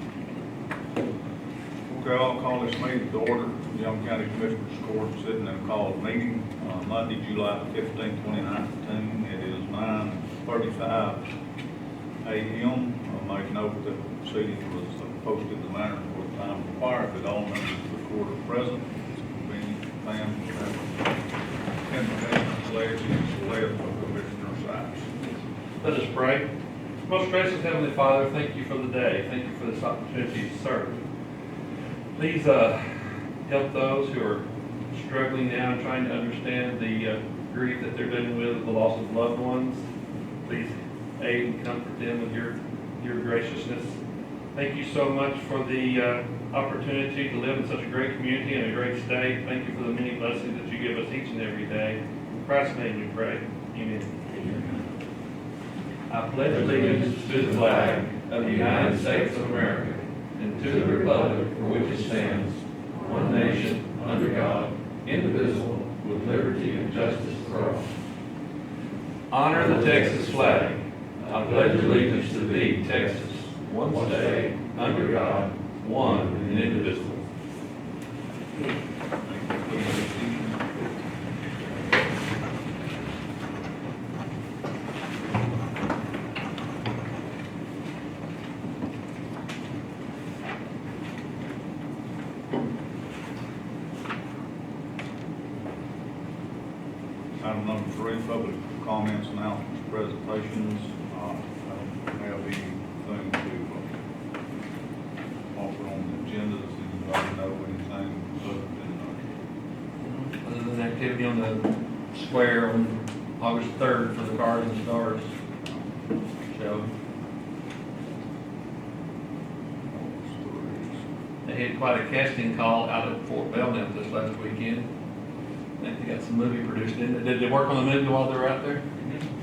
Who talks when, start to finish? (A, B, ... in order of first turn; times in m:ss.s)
0:01.9-0:11.2 A
0:12.2-0:21.1 A
0:21.9-0:25.1 A
0:25.8-0:26.5 B
0:27.1-0:31.0 B
0:32.2-0:32.9 B
0:33.4-0:39.9 B
0:40.4-0:44.0 B
0:44.6-0:54.7 B
0:56.1-1:07.9 B
1:09.3-1:17.2 B
1:19.2-1:20.9 A
1:37.4-1:43.9 A
1:45.5-1:49.4 A
1:50.0-1:55.3 B
1:56.5-1:56.9 B
1:59.9-2:01.0 A
2:01.4-2:04.9 B
2:05.8-2:08.9 B